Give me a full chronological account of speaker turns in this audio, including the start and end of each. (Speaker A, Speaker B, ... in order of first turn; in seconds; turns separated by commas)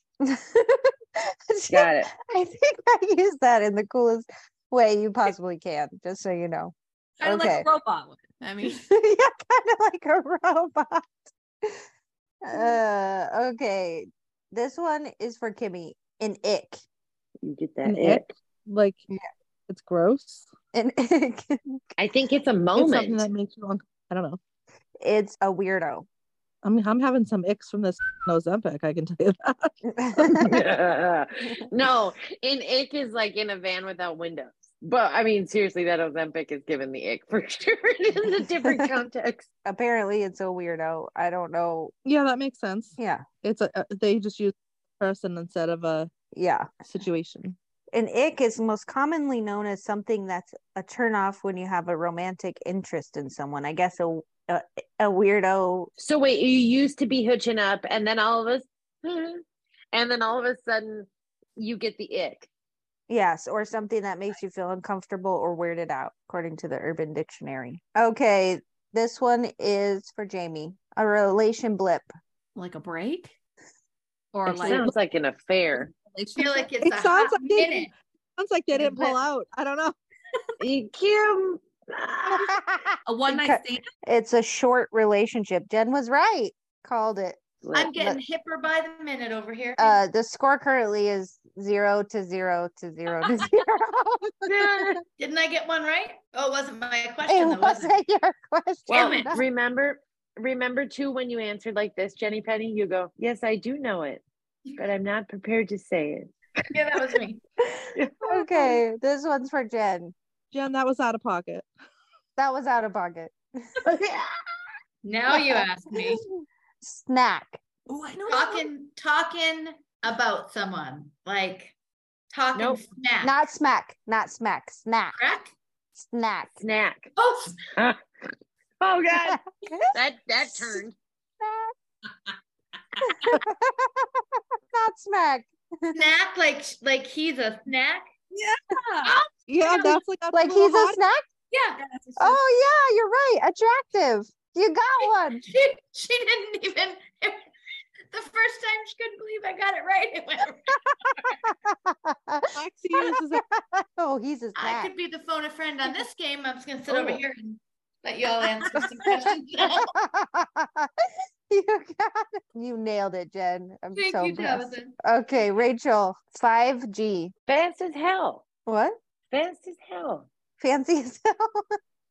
Speaker A: 0.2-7.7, Speaker B: 1.7-2.1, Speaker C: 7.2-8.8, Speaker A: 8.6-11.1, Speaker A: 12.4-16.8, Speaker B: 17.4-18.3, Speaker D: 17.8-19.0, Speaker D: 19.7-20.5, Speaker A: 20.7-21.8, Speaker B: 22.0-23.3, Speaker D: 22.8-24.4, Speaker A: 25.0-26.1, Speaker D: 26.6-29.7, Speaker A: 29.9-30.6, Speaker B: 30.4-39.5, Speaker A: 39.6-41.9, Speaker D: 42.0-46.1, Speaker A: 43.0-43.2, Speaker A: 46.3-46.7, Speaker D: 46.9-47.6, Speaker A: 47.9-55.9, Speaker B: 56.0-62.5, Speaker A: 63.1-72.1, Speaker C: 72.6-73.3, Speaker C: 74.3-74.9, Speaker B: 74.5-75.9, Speaker A: 74.5-74.9, Speaker C: 75.9-76.7, Speaker E: 76.4-77.9, Speaker D: 76.8-80.0, Speaker A: 78.8-79.1, Speaker B: 80.6-82.6, Speaker A: 82.3-87.4, Speaker C: 83.1-83.8, Speaker B: 87.6-87.9, Speaker E: 87.8-90.0, Speaker A: 89.8-95.0, Speaker B: 94.5-95.0, Speaker E: 95.2-97.9, Speaker A: 97.3-99.4, Speaker B: 98.9-104.2, Speaker E: 98.9-99.4, Speaker B: 104.8-106.4, Speaker E: 106.7-107.4, Speaker A: 107.6-110.1, Speaker D: 110.5-111.7, Speaker A: 112.4-113.8, Speaker B: 113.8-114.3, Speaker E: 115.0-116.2, Speaker A: 115.3-117.6, Speaker C: 117.9-118.7, Speaker E: 118.3-121.7, Speaker E: 122.3-123.3, Speaker B: 122.5-122.8, Speaker A: 123.2-125.2, Speaker E: 125.2-125.5, Speaker A: 126.0-126.6, Speaker B: 126.6-127.1, Speaker E: 127.2-127.6, Speaker B: 127.8-129.4, Speaker A: 129.2-130.8, Speaker B: 129.9-131.0, Speaker A: 131.4-131.7, Speaker A: 133.0-136.0, Speaker E: 135.9-138.1, Speaker D: 138.3-138.6, Speaker C: 138.7-139.2, Speaker E: 139.1-140.0, Speaker D: 139.5-141.0, Speaker A: 140.3-141.3, Speaker E: 141.5-141.8, Speaker C: 141.8-142.4, Speaker A: 142.2-145.4, Speaker E: 145.0-147.5, Speaker E: 148.1-151.4, Speaker A: 151.4-154.9, Speaker D: 152.6-153.4, Speaker E: 154.6-159.9, Speaker A: 159.7-167.3, Speaker E: 163.9-165.0, Speaker B: 167.5-168.4, Speaker A: 168.7-169.0, Speaker B: 169.3-170.3, Speaker A: 170.6-171.7